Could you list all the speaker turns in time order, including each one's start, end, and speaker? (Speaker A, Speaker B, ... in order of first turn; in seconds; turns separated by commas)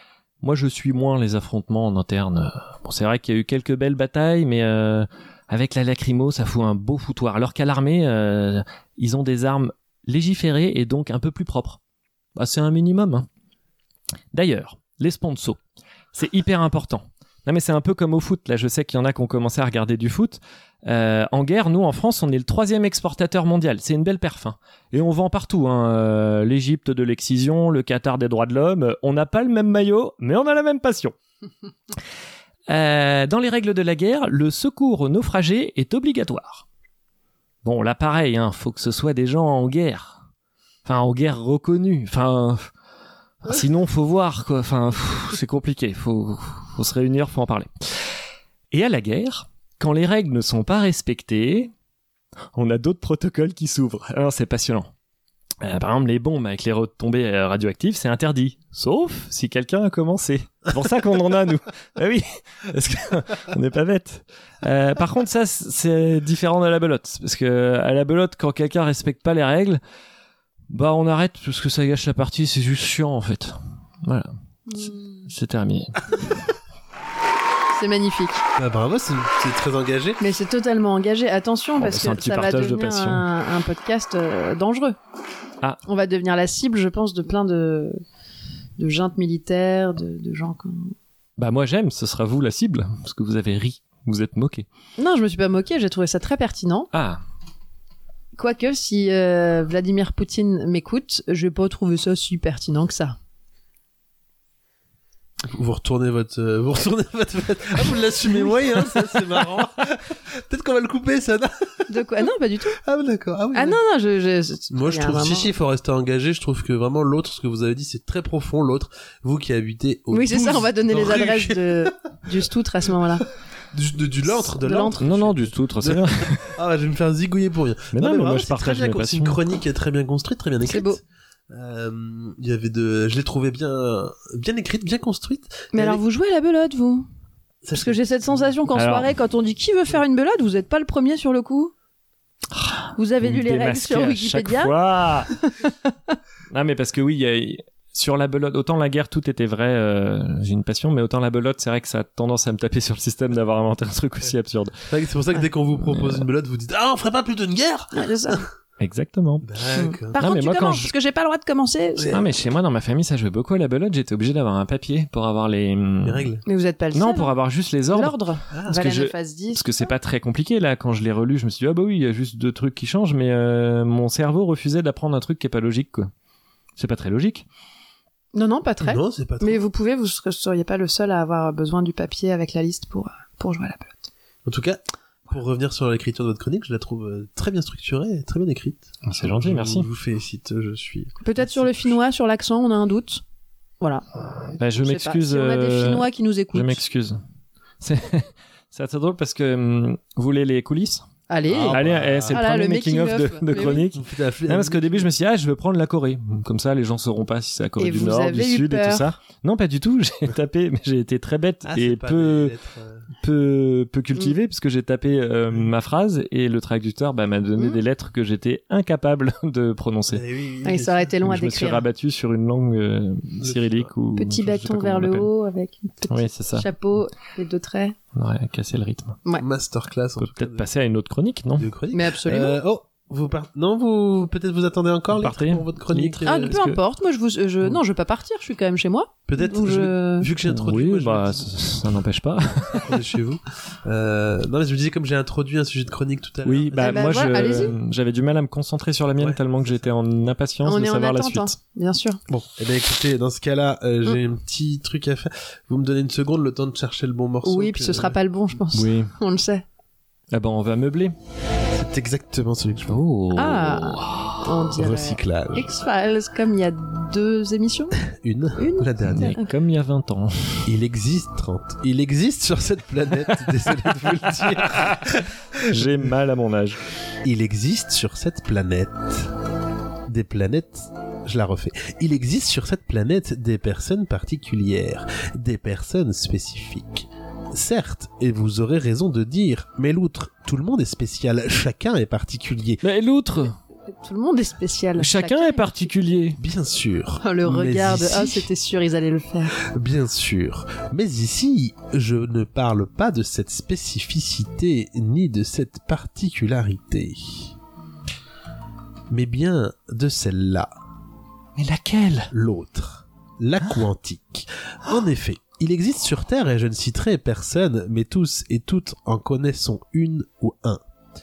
Speaker A: 0.4-11.8, Speaker A: 12.3-13.3, Speaker A: 14.3-15.6, Speaker A: 16.1-31.1, Speaker A: 32.7-36.6, Speaker A: 37.6-40.2, Speaker A: 40.9-42.6, Speaker A: 43.4-47.7, Speaker A: 48.7-51.7, Speaker A: 52.5-54.9, Speaker A: 55.6-69.8, Speaker A: 70.7-74.3, Speaker B: 74.7-75.3, Speaker A: 75.3-76.3, Speaker B: 77.7-78.4, Speaker C: 78.6-80.2, Speaker B: 80.2-85.0, Speaker A: 81.8-83.2, Speaker B: 85.9-88.0, Speaker B: 88.8-90.9, Speaker A: 91.4-94.7, Speaker B: 95.0-96.9, Speaker A: 96.9-97.2, Speaker B: 98.3-103.2, Speaker C: 105.5-111.9, Speaker B: 111.9-112.8, Speaker C: 112.8-113.8, Speaker B: 113.5-115.5, Speaker C: 114.7-121.9, Speaker B: 120.1-123.2, Speaker C: 123.7-136.0, Speaker B: 124.6-124.9, Speaker A: 124.8-126.5, Speaker A: 127.9-129.4, Speaker B: 130.7-131.0, Speaker B: 135.7-137.1, Speaker C: 137.6-138.5, Speaker B: 137.7-141.7, Speaker A: 138.7-139.1, Speaker A: 142.5-145.3, Speaker B: 143.0-144.7, Speaker A: 146.5-154.7, Speaker C: 154.9-158.4, Speaker A: 155.9-156.2, Speaker B: 157.9-158.4, Speaker A: 158.8-159.4, Speaker C: 159.4-160.2, Speaker B: 159.8-162.2, Speaker A: 160.2-160.9, Speaker C: 162.0-162.2, Speaker A: 162.1-166.2, Speaker C: 166.0-166.4, Speaker B: 166.4-167.3, Speaker A: 166.9-168.2, Speaker B: 167.9-169.8, Speaker C: 168.5-168.8, Speaker A: 168.7-176.1, Speaker A: 176.8-177.4, Speaker B: 178.3-184.1, Speaker C: 178.8-179.6, Speaker C: 184.4-191.9, Speaker A: 189.0-189.9, Speaker B: 191.2-193.2, Speaker A: 194.6-197.2, Speaker B: 194.8-196.8, Speaker A: 197.8-201.1, Speaker B: 201.3-201.8, Speaker C: 201.5-202.4, Speaker A: 201.7-212.5, Speaker B: 202.3-203.9, Speaker C: 203.8-205.1, Speaker B: 207.8-209.1, Speaker C: 211.6-213.1, Speaker A: 213.2-220.2, Speaker C: 220.1-221.1, Speaker B: 220.6-221.8, Speaker A: 221.2-225.3, Speaker C: 223.4-223.9, Speaker B: 224.2-227.9, Speaker A: 226.1-226.7, Speaker A: 228.1-229.2, Speaker C: 229.4-230.7, Speaker A: 230.2-231.7, Speaker C: 231.6-236.6, Speaker B: 231.9-232.6, Speaker A: 235.1-236.8, Speaker B: 236.2-240.3, Speaker C: 239.3-241.7, Speaker A: 240.4-242.9, Speaker C: 242.8-247.8, Speaker A: 246.4-251.5, Speaker B: 246.8-247.7, Speaker C: 249.2-249.9, Speaker B: 250.6-252.2, Speaker C: 252.3-258.2, Speaker B: 257.4-259.6, Speaker A: 258.7-259.1, Speaker A: 260.3-261.1, Speaker C: 261.7-263.0, Speaker A: 262.9-264.4, Speaker B: 263.3-268.0, Speaker C: 264.8-265.7, Speaker C: 268.1-269.3, Speaker B: 268.6-269.4, Speaker A: 269.1-270.6, Speaker C: 270.6-275.3, Speaker A: 274.6-276.8, Speaker C: 277.2-279.3, Speaker C: 280.1-292.8, Speaker A: 292.8-293.6, Speaker B: 293.9-295.7, Speaker A: 295.0-296.4, Speaker C: 296.4-298.5, Speaker B: 297.2-299.5, Speaker C: 299.6-307.5, Speaker C: 309.1-310.7, Speaker A: 311.6-312.3, Speaker C: 312.3-320.8